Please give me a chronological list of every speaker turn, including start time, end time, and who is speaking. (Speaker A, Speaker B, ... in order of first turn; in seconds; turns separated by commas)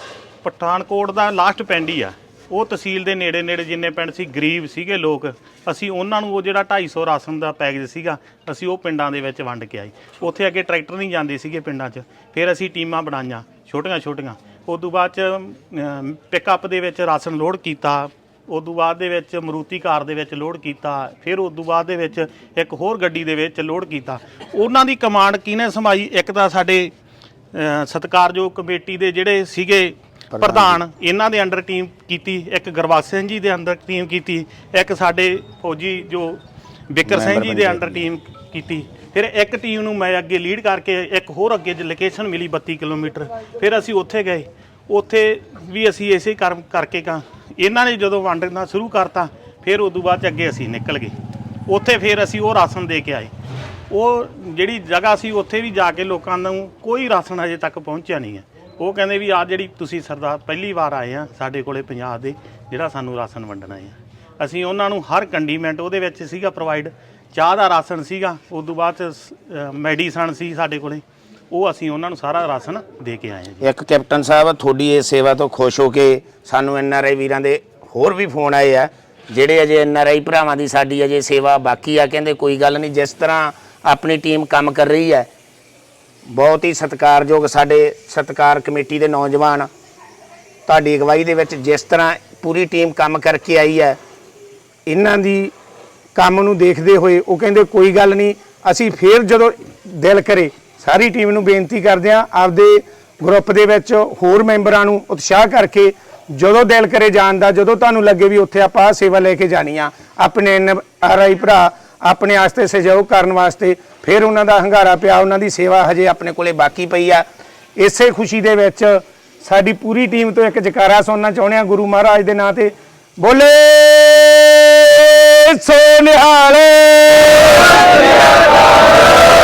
Speaker A: 0.4-26.9, Speaker A: 27.5-51.1, Speaker B: 30.3-30.8, Speaker B: 37.1-38.0, Speaker A: 51.7-53.3, Speaker A: 53.9-73.6, Speaker B: 73.6-85.3, Speaker B: 86.3-89.7, Speaker B: 90.7-94.0, Speaker C: 94.9-95.5, Speaker C: 96.2-116.3, Speaker B: 116.3-117.2, Speaker C: 117.8-127.8